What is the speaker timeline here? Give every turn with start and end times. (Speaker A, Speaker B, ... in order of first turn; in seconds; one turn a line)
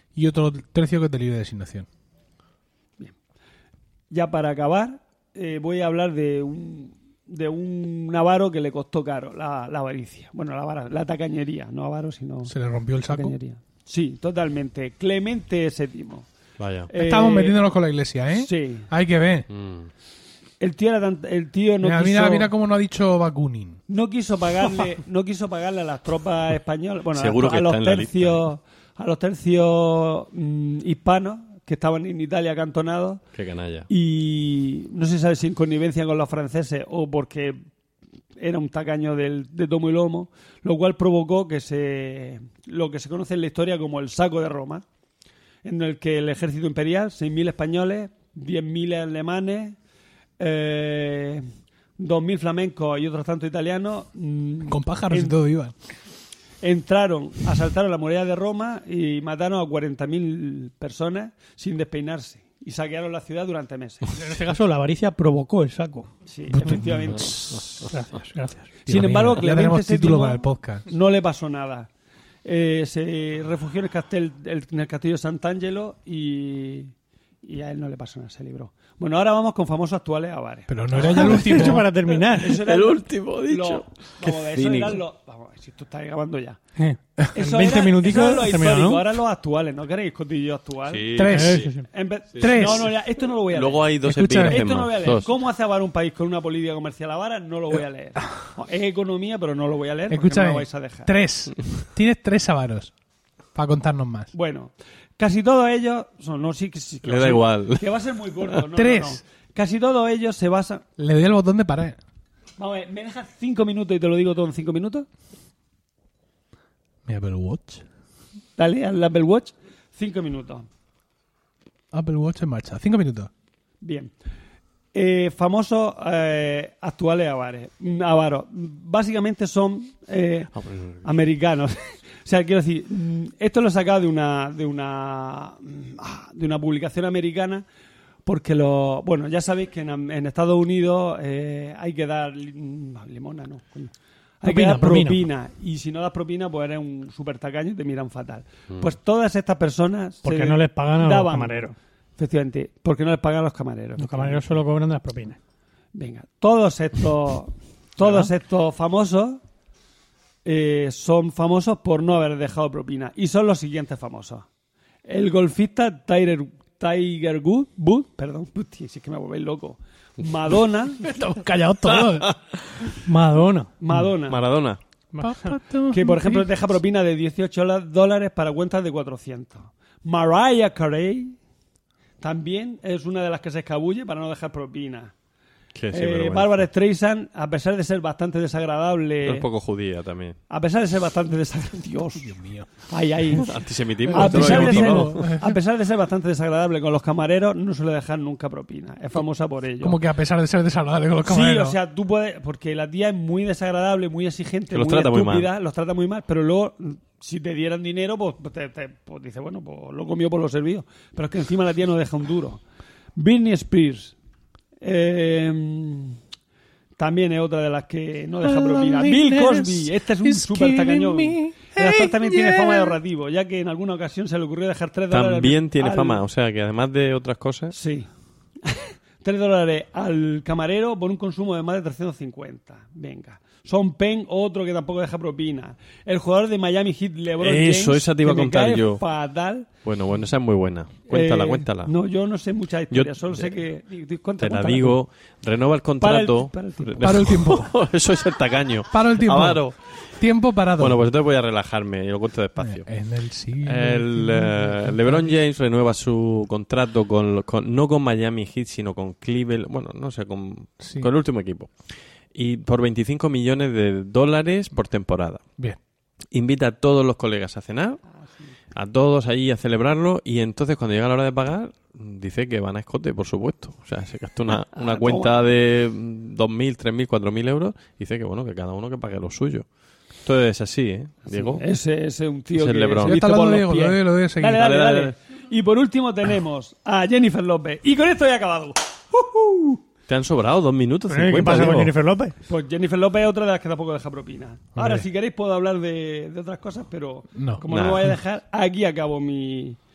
Speaker A: 0.1-1.9
Speaker B: 4.1-12.5
Speaker A: 12.4-13.3
Speaker B: 13.1-16.3
Speaker C: 16.6-16.9
Speaker B: 16.9-17.6
Speaker A: 16.9-19.5
Speaker B: 18.3-18.9
Speaker C: 19.5-19.9
Speaker B: 20.6-22.5
Speaker A: 21.8-23.8
Speaker B: 23.9-33.2
Speaker C: 27.1-28.4
Speaker C: 33.3-33.9
Speaker B: 33.9-37.6
Speaker B: 38.4-44.8
Speaker B: 45.6-49.8
Speaker B: 50.4-51.5
Speaker B: 52.0-55.4
Speaker A: 54.7-55.7
Speaker B: 56.6-64.1
Speaker D: 64.1-66.1
Speaker B: 66.2-67.4
Speaker A: 66.5-67.9
Speaker D: 67.9-68.7
Speaker B: 68.8-71.9
Speaker A: 68.9-70.8
Speaker B: 72.4-86.6
Speaker A: 80.7-81.9
Speaker D: 81.1-82.6
Speaker C: 82.4-85.0
Speaker D: 86.8-89.1
Speaker B: 87.3-101.1
Speaker C: 90.9-91.7
Speaker A: 91.1-91.7
Speaker D: 91.3-91.8
Speaker A: 92.3-92.9
Speaker C: 92.4-92.7
Speaker C: 93.5-95.3
Speaker A: 94.0-94.7
Speaker A: 100.1-102.9
Speaker A: 103.5-104.3
Speaker B: 104.3-110.8
Speaker C: 107.0-108.0
Speaker A: 108.7-109.2
Speaker A: 111.0-112.0
Speaker B: 112.6-115.1
Speaker A: 117.0-117.8
Speaker B: 118.6-120.7
Speaker A: 121.9-123.3
Speaker B: 123.8-124.1
Speaker B: 124.9-137.6
Speaker C: 130.5-131.0
Speaker B: 138.2-143.9
Speaker B: 144.4-151.6
Speaker D: 144.4-145.2
Speaker D: 150.2-151.7
Speaker B: 152.2-154.4
Speaker D: 154.0-155.4
Speaker B: 155.9-159.4
Speaker D: 158.0-158.3
Speaker B: 160.4-164.4
Speaker B: 165.0-171.1
Speaker A: 171.0-172.3
Speaker C: 171.9-172.4
Speaker D: 173.0-173.7
Speaker B: 173.8-174.4
Speaker C: 174.3-174.8
Speaker D: 175.1-175.6
Speaker A: 175.2-176.5
Speaker B: 175.9-181.4
Speaker B: 182.2-185.1
Speaker C: 185.7-186.6
Speaker B: 185.9-189.4
Speaker C: 189.2-190.4
Speaker B: 190.5-192.3
Speaker A: 192.1-192.7
Speaker B: 192.8-193.6
Speaker C: 193.3-195.2
Speaker A: 194.1-195.6
Speaker B: 194.1-200.0
Speaker A: 199.8-201.8
Speaker B: 201.2-212.6
Speaker C: 204.7-205.5
Speaker B: 213.2-214.1
Speaker B: 214.8-216.2
Speaker B: 217.0-226.2
Speaker A: 218.4-223.0
Speaker C: 225.1-227.7
Speaker B: 227.7-228.1
Speaker B: 228.6-239.7
Speaker C: 237.4-239.0
Speaker C: 239.8-241.9
Speaker B: 241.1-245.0
Speaker C: 242.9-243.5
Speaker C: 244.4-250.0
Speaker B: 246.0-247.2
Speaker A: 247.0-247.8
Speaker A: 248.9-251.0
Speaker C: 250.8-252.9
Speaker A: 252.6-255.2
Speaker C: 253.6-261.7
Speaker A: 260.8-261.1
Speaker C: 262.3-265.4
Speaker C: 266.3-268.0
Speaker C: 268.7-279.6
Speaker B: 274.7-275.4
Speaker C: 280.2-281.6
Speaker B: 281.3-289.8
Speaker C: 282.5-283.1
Speaker A: 283.0-284.6
Speaker C: 284.5-285.1
Speaker C: 290.1-291.9
Speaker D: 291.1-292.4
Speaker B: 292.4-299.8
Speaker A: 294.8-295.0
Speaker A: 297.3-298.1
Speaker C: 297.7-298.1